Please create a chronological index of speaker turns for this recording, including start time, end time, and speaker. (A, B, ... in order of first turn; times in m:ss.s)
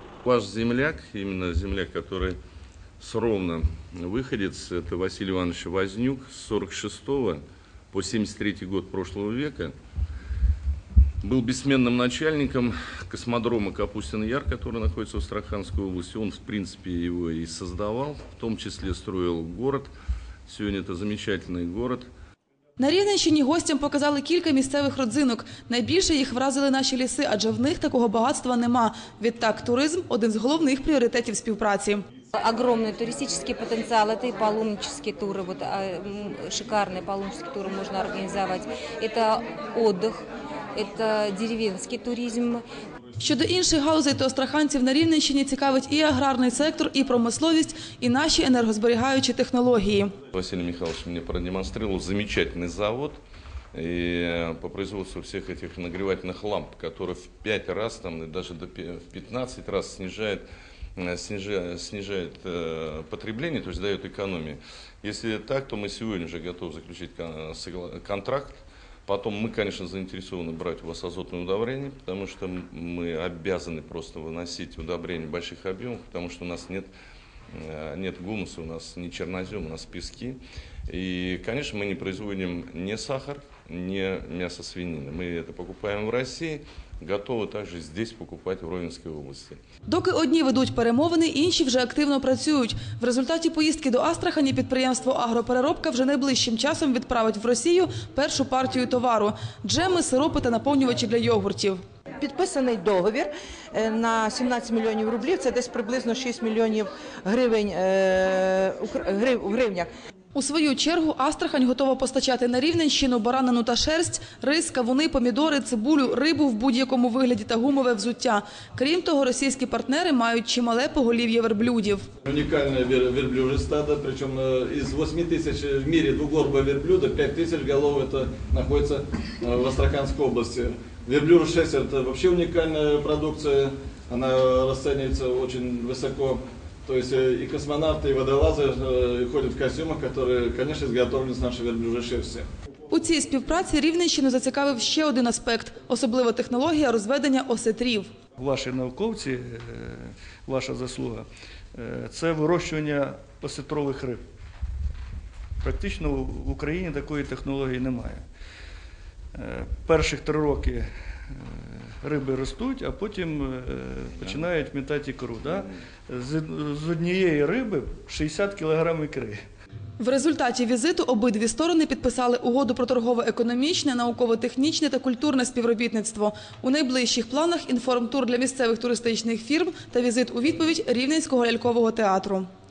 0:00.2-0:02.3 A
0:03.0-0:07.4 A
0:07.9-0:09.7 A
0:11.2-0:19.9 A
0:20.5-0:22.1 A
0:22.8-0:32.0 B
0:32.4-0:40.2 C
0:40.7-0:42.6 C
0:43.2-0:50.1 B
0:50.3-0:53.2 A
0:53.7-1:00.4 A
1:01.0-1:16.9 A
1:17.5-1:29.6 A
1:29.9-1:41.8 B
1:42.2-1:49.9 D
1:50.3-2:02.0 B
2:02.2-2:22.5 E
2:22.9-2:28.1 B
2:28.4-2:34.2 F
2:35.6-2:38.2 F
2:39.3-2:49.4 F
2:50.0-3:02.5 B